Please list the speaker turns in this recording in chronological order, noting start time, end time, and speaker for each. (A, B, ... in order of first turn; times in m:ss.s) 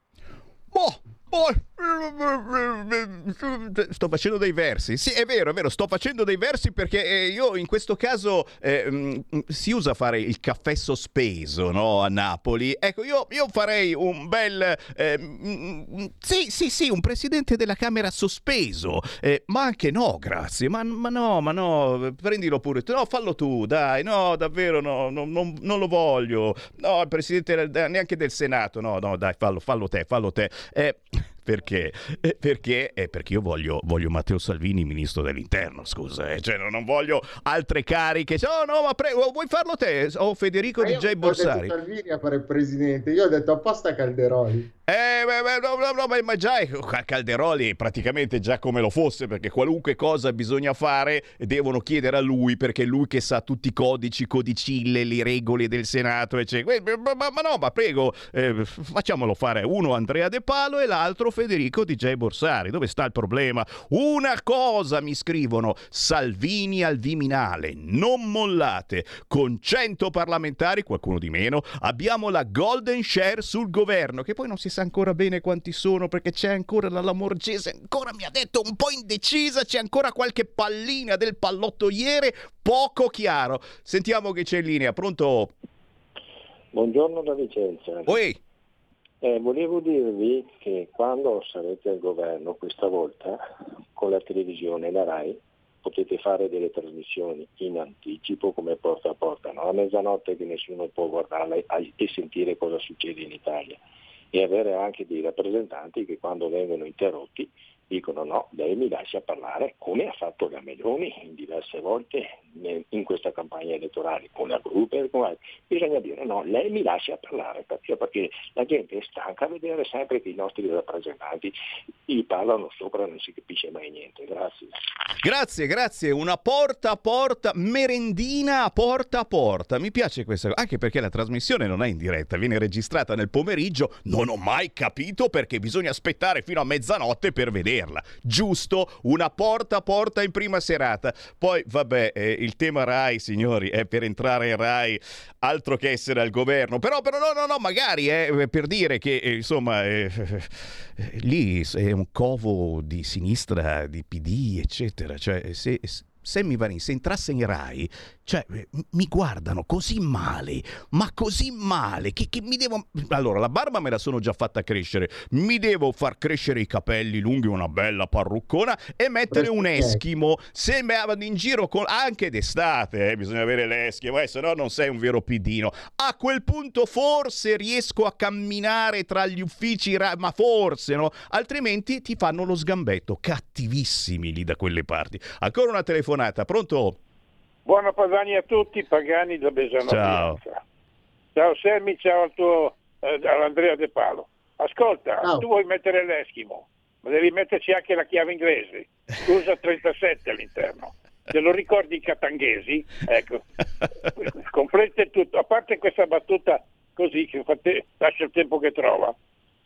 0:00.7-0:41.7 A
0:40.8-0:44.7 B
0:44.9-1:25.5 A
1:26.7-1:28.2 C
1:28.1-1:28.4 A
1:29.2-1:33.4 C
1:33.9-1:43.8 C
1:44.3-2:01.6 C
2:02.1-2:04.7 C
2:05.2-3:07.0 A
2:49.3-2:50.0 B
3:07.7-3:10.6 D
3:09.9-3:10.4 A
3:11.4-3:23.4 D
3:15.2-3:15.5 B
3:24.2-3:29.2 D